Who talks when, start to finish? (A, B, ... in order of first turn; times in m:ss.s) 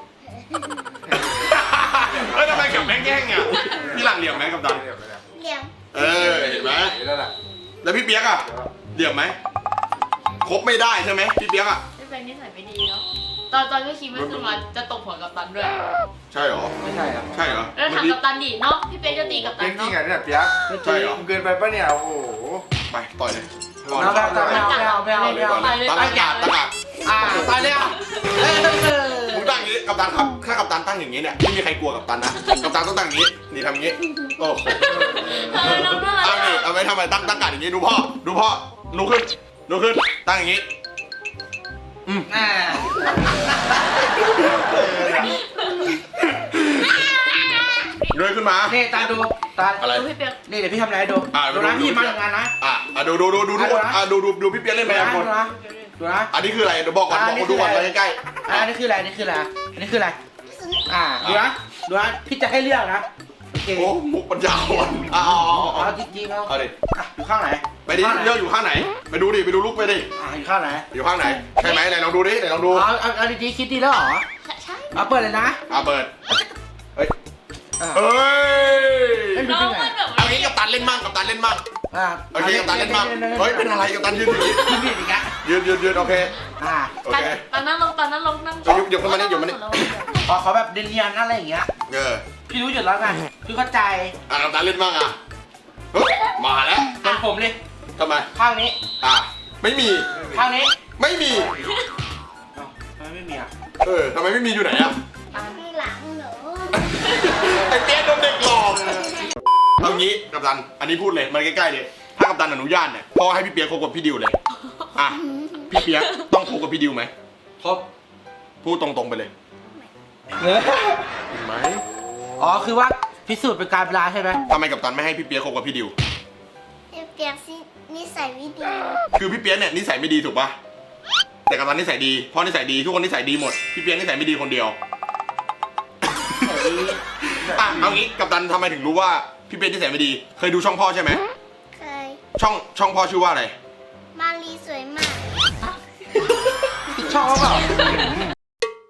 0:00.2-0:01.1 A
0:01.1-0:04.8 B
0:01.1-0:01.6 C
0:02.1-0:02.9 C
0:03.8-0:05.3 C
0:05.3-0:06.8 A
0:05.9-0:07.0 B
0:06.6-0:07.4 C
0:07.8-0:09.4 B
0:08.4-0:08.8 C
0:10.4-0:11.8 B
0:12.0-0:15.9 D
0:14.1-0:14.6 B
0:16.3-0:16.7 B
0:16.8-0:17.3 E
0:17.3-0:18.2 B
0:17.8-0:20.0 D
0:19.1-0:22.7 C
0:20.7-0:21.2 E
0:20.8-0:21.2 B
0:22.9-0:28.0 B
0:23.9-0:24.7 C
0:24.0-0:26.3 E
0:24.3-0:26.6 D
0:27.0-0:29.6 E
0:29.3-0:40.7 B
0:34.8-0:36.7 D
0:42.3-0:43.2 E
0:44.1-0:45.3 B
0:45.2-0:45.9 D
0:46.2-0:47.1 B
0:47.4-0:48.2 D
0:48.1-0:48.9 B
0:48.7-0:49.8 E
0:49.8-0:50.1 B
0:49.8-0:50.4 D
0:50.4-0:52.5 E
0:51.3-0:55.3 B
0:53.6-0:54.0 E
0:54.8-0:56.3 E
0:56.3-0:58.7 B
0:57.1-0:57.9 E
0:58.5-1:00.2 E
1:00.5-1:00.9 A
1:00.9-1:03.9 E
1:01.2-1:01.5 B
1:03.7-1:06.7 B
1:05.6-1:08.4 E
1:07.8-1:10.1 B
1:10.2-1:10.9 E
1:10.9-1:12.9 B
1:11.5-1:12.0 D
1:12.7-1:14.3 E
1:14.4-1:15.0 D
1:14.9-1:15.6 E
1:15.7-1:16.2 B
1:17.8-1:18.1 E
1:17.9-1:19.5 B
1:19.3-1:19.9 E
1:19.4-1:21.1 D
1:20.2-1:21.6 B
1:21.9-1:23.8 E
1:22.3-1:24.8 B
1:24.3-1:25.4 E
1:25.4-1:26.3 B
1:26.5-1:27.0 E
1:27.0-1:27.4 B
1:27.1-1:30.3 D
1:28.6-1:30.0 B
1:30.3-1:31.7 E
1:31.9-1:32.2 B
1:32.5-1:34.2 E
1:34.3-1:35.2 B
1:35.9-1:37.0 B
1:37.0-1:37.6 E
1:38.0-1:38.3 B
1:38.3-1:38.8 E
1:39.0-1:40.2 B
1:40.3-1:40.7 E
1:41.0-1:41.6 B
1:41.6-1:41.9 D
1:42.5-1:43.5 E
1:43.8-1:45.0 B
1:45.3-1:47.0 A
1:45.3-1:45.6 D
1:46.8-1:54.4 B
1:55.0-1:57.1 B
1:55.1-1:55.8 A
1:55.9-1:56.3 D
1:57.6-1:57.9 E
1:58.6-1:59.3 B
1:59.7-1:59.9 A
2:00.4-2:01.0 E
2:01.3-2:01.8 B
2:02.4-2:04.4 E
2:04.5-2:06.0 B
2:06.9-2:09.1 A
2:09.2-2:10.6 B
2:11.5-2:14.8 B
2:16.0-2:16.6 B
2:16.4-2:17.0 E
2:17.2-2:21.2 B
2:17.4-2:18.0 C
2:21.7-2:22.2 A
2:22.4-2:23.6 B
2:24.2-2:25.2 A
2:26.9-2:27.8 E